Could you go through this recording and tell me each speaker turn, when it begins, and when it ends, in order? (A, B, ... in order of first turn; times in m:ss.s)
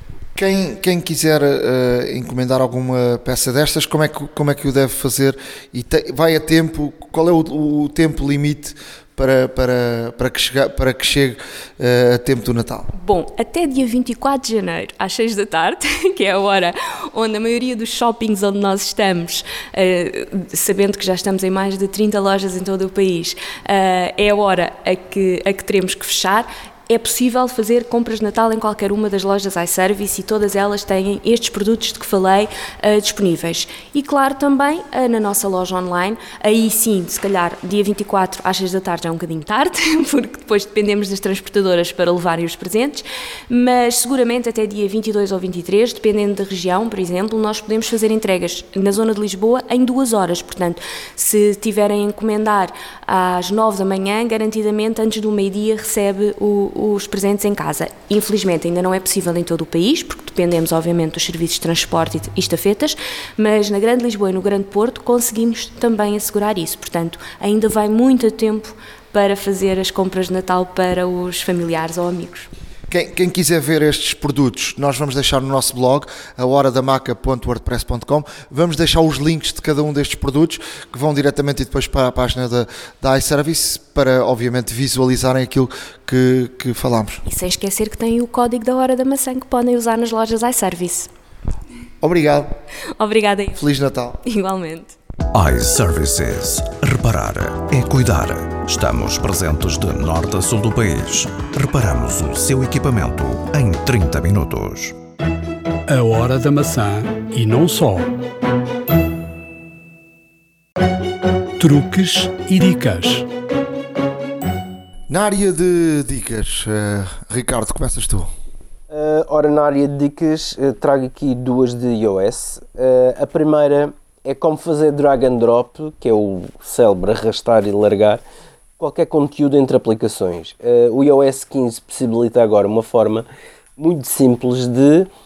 0:00.4-0:12.9 A
0:12.9-1:12.5 B
1:12.9-1:27.2 A
1:27.2-1:31.1 B
1:32.0-1:32.5 A
1:33.0-1:33.6 B
1:33.5-1:34.2 A
1:34.2-1:34.9 B
1:35.3-1:45.0 C
1:45.9-1:48.1 D
1:51.6-1:53.3 D
1:55.1-1:58.3 A
1:58.9-2:08.2 E
2:08.8-2:13.2 E
2:13.8-2:15.1 E